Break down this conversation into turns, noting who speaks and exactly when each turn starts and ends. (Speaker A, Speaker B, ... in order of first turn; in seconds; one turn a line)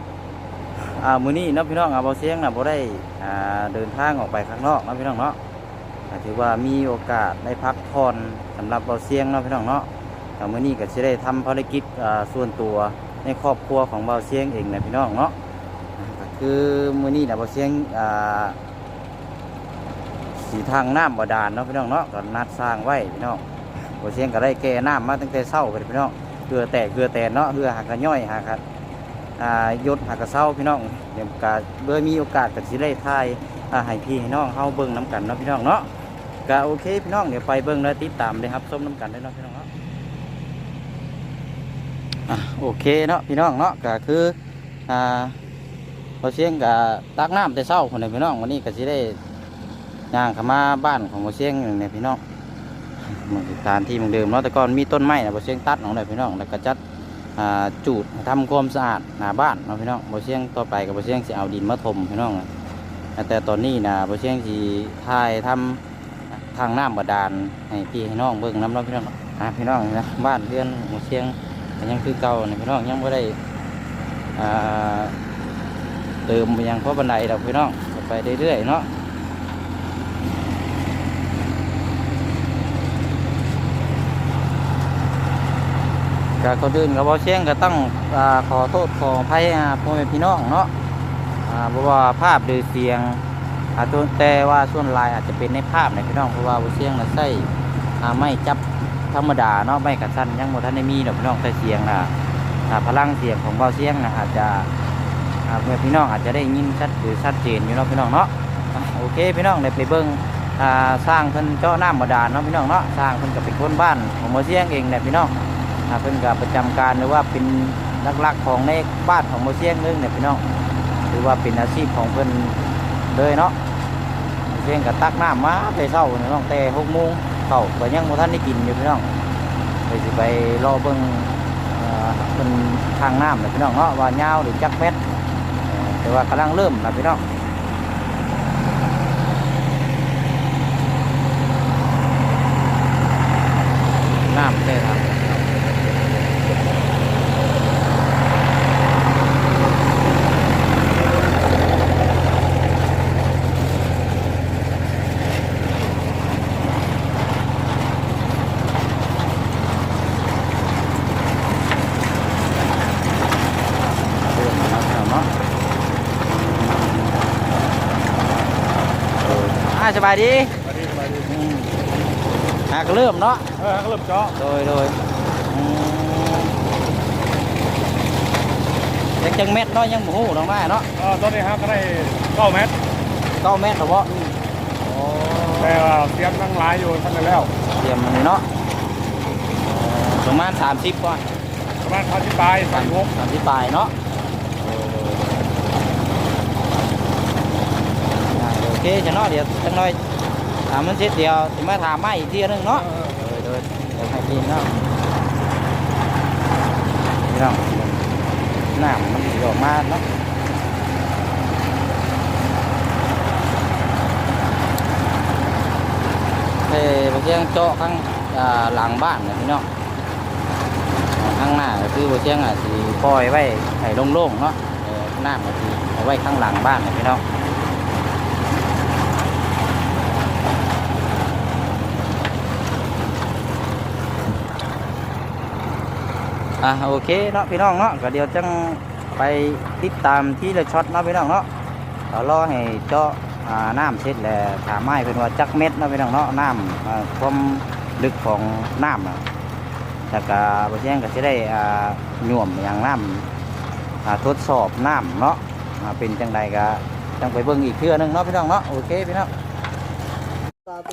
Speaker A: 0.8-5.4
Speaker A: 6.1-9.9
Speaker A: 10.4-15.3
Speaker A: 16.0-18.6
Speaker A: 20.3-23.4
Speaker A: 24.0-28.6
Speaker A: 29.4-35.9
Speaker A: 36.4-39.7
Speaker A: 42.3-44.4
Speaker A: 44.9-45.4
Speaker A: 46.2-49.2
Speaker A: 50.1-52.2
Speaker A: 53.0-56.8
Speaker A: 57.4-62.5
Speaker A: 63.2-73.4
Speaker A: 74.3-75.2
Speaker A: 76.3-78.9
Speaker A: 86.4-90.7
Speaker A: 91.4-93.2
Speaker A: 93.7-102.1
Speaker A: 102.7-104.7
Speaker A: 105.4-115.3
Speaker A: 115.9-120.4
Speaker A: 121.1-123.5
Speaker A: 124.5-129.1
Speaker A: 129.9-135.0
Speaker A: 135.6-137.2
Speaker A: 144.2-145.3
Speaker A: 164.2-165.3
Speaker A: 166.4-167.1
Speaker A: 169.2-170.6
Speaker B: 170.7-171.2
Speaker A: 171.2-171.8
Speaker A: 172.7-173.5
Speaker B: 173.6-174.3
Speaker A: 174.3-176.5
Speaker A: 179.2-180.9
Speaker B: 181.0-182.8
Speaker A: 183.4-184.2
Speaker A: 184.8-185.9
Speaker B: 185.6-187.5
Speaker A: 187.6-188.5
Speaker A: 189.6-191.3
Speaker B: 191.8-193.0
Speaker A: 192.6-193.9
Speaker A: 194.6-195.5
Speaker A: 198.2-200.0
Speaker A: 200.7-204.7
Speaker A: 207.2-208.0
Speaker A: 208.7-210.0
Speaker A: 216.6-219.7
Speaker A: 221.1-227.2
Speaker A: 236.6-241.5
Speaker A: 242.1-249.2
Speaker A: 250.1-253.3
Speaker A: 254.0-259.3